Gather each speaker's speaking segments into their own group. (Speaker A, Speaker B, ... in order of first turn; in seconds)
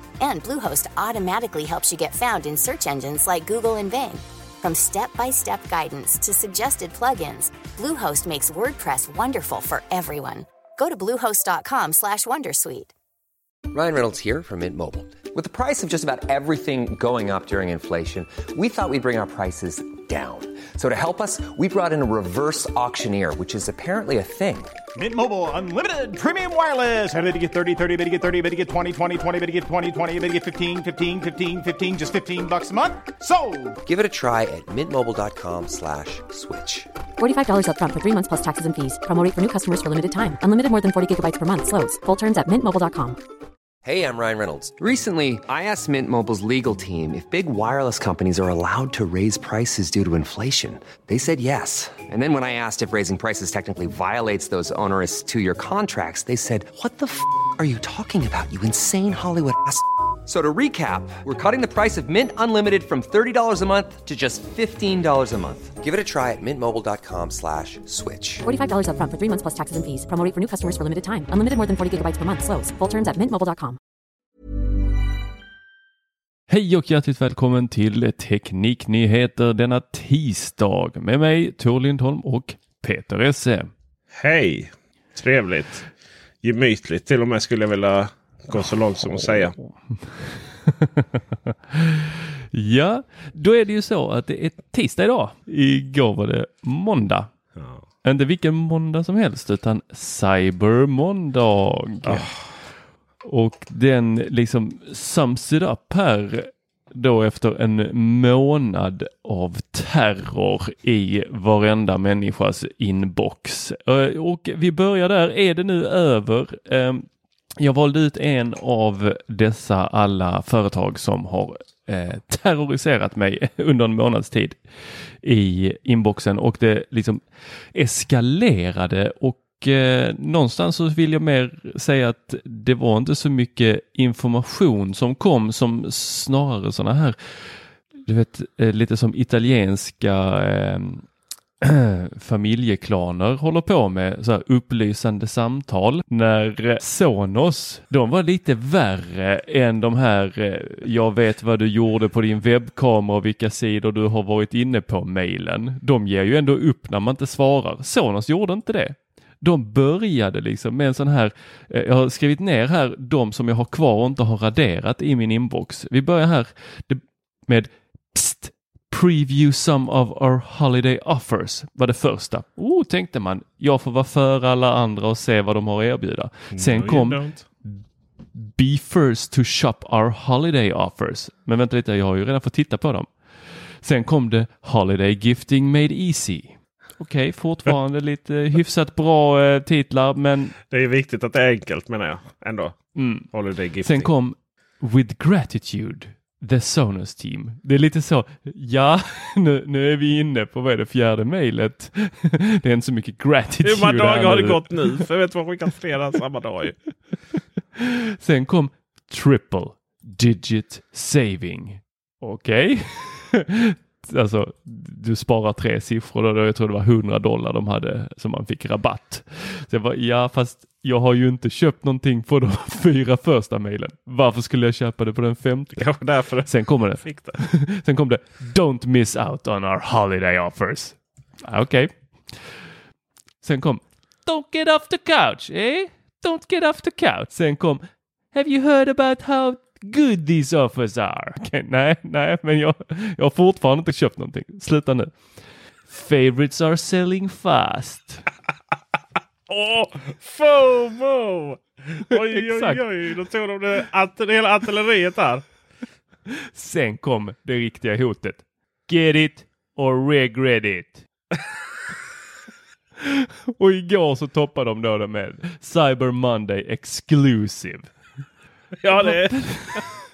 Speaker A: 0.2-12.9
Speaker B: 13.7-24.8, 33.9-36.9, 43.8-68.5
Speaker C: 25.0-33.8
Speaker D: 37.2-43.2, 68.5-73.8
Speaker E: 76.5-83.7, 89.9-97.3, 98.0-102.3, 103.2-117.1, 117.6-124.6, 125.2-127.2, 127.7-137.2, 138.0-141.1, 141.6-177.8, 178.3-183.1, 183.8-190.6, 193.0-193.3, 193.8-205.0, 207.8-225.9, 226.5-231.9, 233.4-245.1, 245.9-248.2, 252.1-252.8, 256.3-261.0, 263.0-267.9, 269.0-270.0
Speaker F: 84.2-85.9, 86.4-89.6, 176.5-177.4, 190.7-194.1, 203.6-206.8, 225.8-227.4, 249.5-255.4, 268.8-269.8